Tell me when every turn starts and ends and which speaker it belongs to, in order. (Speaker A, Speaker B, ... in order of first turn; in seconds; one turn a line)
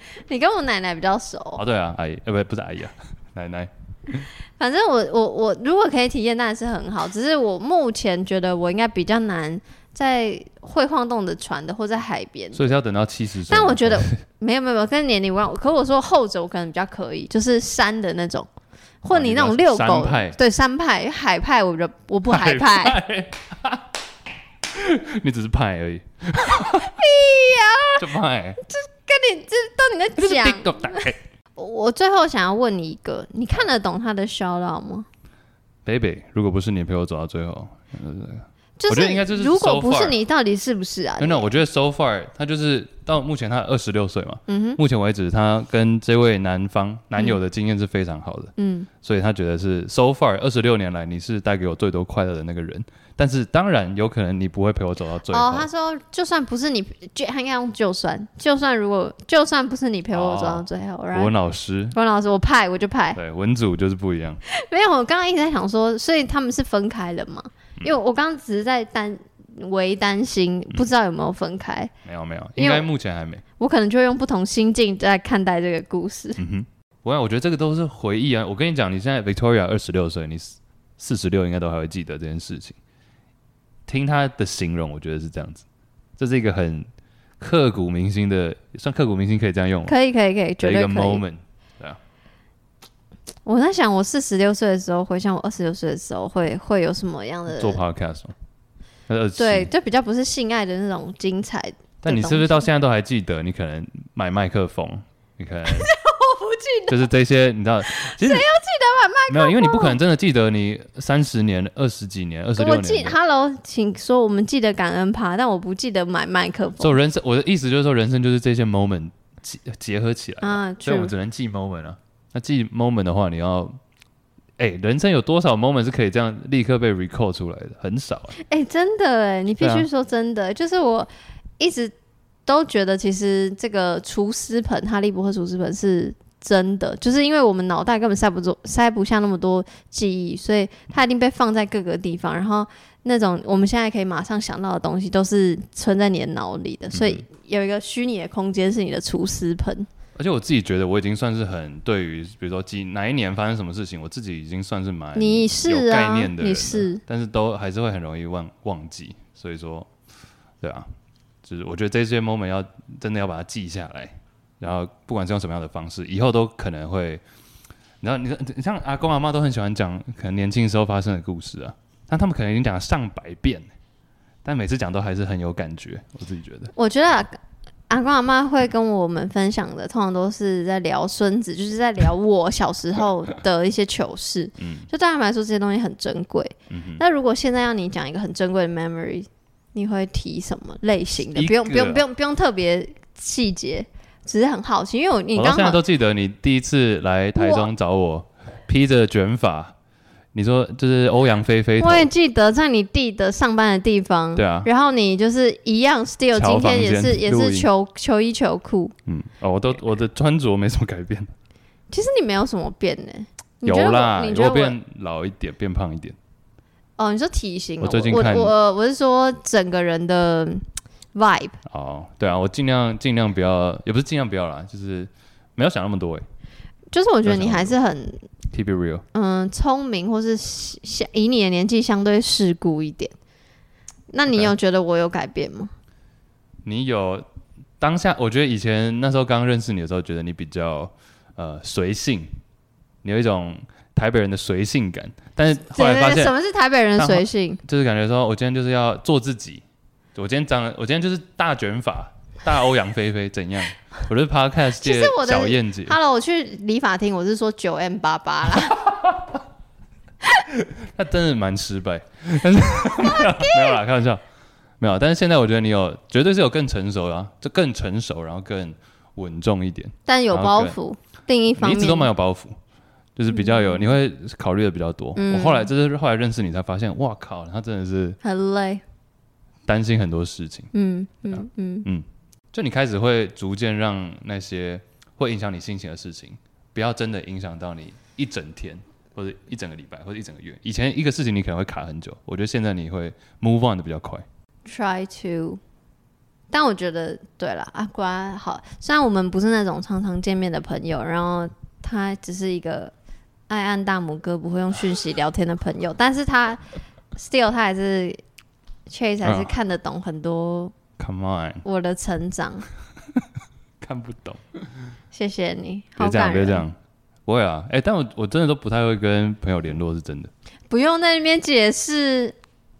Speaker A: 0.2-1.6
Speaker B: 1.6-4.3
Speaker A: 4.6-12.8
Speaker B: 12.6-14.1
Speaker A: 13.5-18.5
Speaker A: 19.0-23.0
Speaker B: 19.1-20.4
Speaker B: 22.3-23.9
Speaker B: 24.7-27.0
Speaker A: 26.4-28.0
Speaker B: 28.0-28.6
Speaker A: 28.6-35.1
Speaker B: 30.2-31.2
Speaker B: 35.9-40.2
Speaker A: 38.8-41.5
Speaker B: 41.2-55.7
Speaker A: 44.5-44.8
Speaker A: 48.6-48.9
Speaker A: 55.3-61.3
Speaker B: 60.1-62.0
Speaker A: 61.9-63.2
Speaker B: 63.1-64.4
Speaker A: 64.5-71.9
Speaker B: 72.0-73.4
Speaker A: 72.6-72.9
Speaker A: 73.6-76.4
Speaker B: 76.4-82.8
Speaker B: 83.9-85.7
Speaker B: 86.2-86.9
Speaker B: 87.4-90.0
Speaker A: 89.9-91.2
Speaker B: 90.6-92.0
Speaker A: 93.5-97.8
Speaker B: 97.5-98.3
Speaker B: 99.1-99.7
Speaker A: 99.4-102.7
Speaker B: 102.0-105.9
Speaker A: 105.7-107.0
Speaker B: 106.9-108.5
Speaker A: 107.9-110.0
Speaker B: 109.3-113.2
Speaker A: 112.6-117.0
Speaker B: 116.8-123.8
Speaker A: 120.4-121.1
Speaker B: 124.6-128.4
Speaker A: 128.4-131.9
Speaker B: 129.6-129.9
Speaker A: 132.5-149.9
Speaker B: 146.9-147.2
Speaker B: 150.2-159.9
Speaker A: 155.2-157.0
Speaker B: 160.6-160.9
Speaker B: 161.4-167.2
Speaker B: 168.0-173.7
Speaker B: 174.4-176.7
Speaker A: 176.8-177.4
Speaker A: 177.9-195.8
Speaker B: 184.6-184.9
Speaker B: 186.7-187.0
Speaker B: 191.2-192.0
Speaker B: 195.3-199.7
Speaker A: 197.3-197.7
Speaker B: 200.3-202.1
Speaker A: 201.8-208.9
Speaker B: 204.4-204.7
Speaker B: 206.3-207.7
Speaker B: 209.1-211.3
Speaker A: 211.9-214.8
Speaker B: 213.7-216.2
Speaker A: 217.0-221.6
Speaker B: 217.8-218.5
Speaker B: 221.7-226.2
Speaker A: 226.9-228.2
Speaker B: 227.2-227.8
Speaker B: 228.5-229.0
Speaker A: 229.1-233.2
Speaker A: 234.1-235.7
Speaker B: 234.3-234.5
Speaker B: 236.7-237.2
Speaker B: 237.8-242.3
Speaker B: 243.0-246.3
Speaker A: 245.7-247.6
Speaker B: 247.0-249.6
Speaker B: 250.2-256.0
Speaker A: 254.8-258.8
Speaker B: 258.8-259.3
Speaker B: 260.5-264.2
Speaker A: 262.9-263.8
Speaker B: 264.8-270.8
Speaker A: 270.1-272.1
Speaker B: 271.6-272.6
Speaker B: 273.2-278.2
Speaker A: 273.3-273.9
Speaker A: 275.2-275.7
Speaker A: 278.2-278.8
Speaker B: 279.7-280.7
Speaker A: 280.7-281.9
Speaker B: 281.3-294.2
Speaker A: 294.7-295.6
Speaker A: 296.5-302.9
Speaker A: 303.5-306.6
Speaker A: 307.1-308.2
Speaker A: 308.9-310.8
Speaker B: 309.2-309.5
Speaker B: 311.0-311.6
Speaker A: 311.6-312.7
Speaker B: 313.8-314.4
Speaker A: 315.1-316.6
Speaker B: 316.0-316.8
Speaker B: 317.3-320.3
Speaker A: 320.7-322.4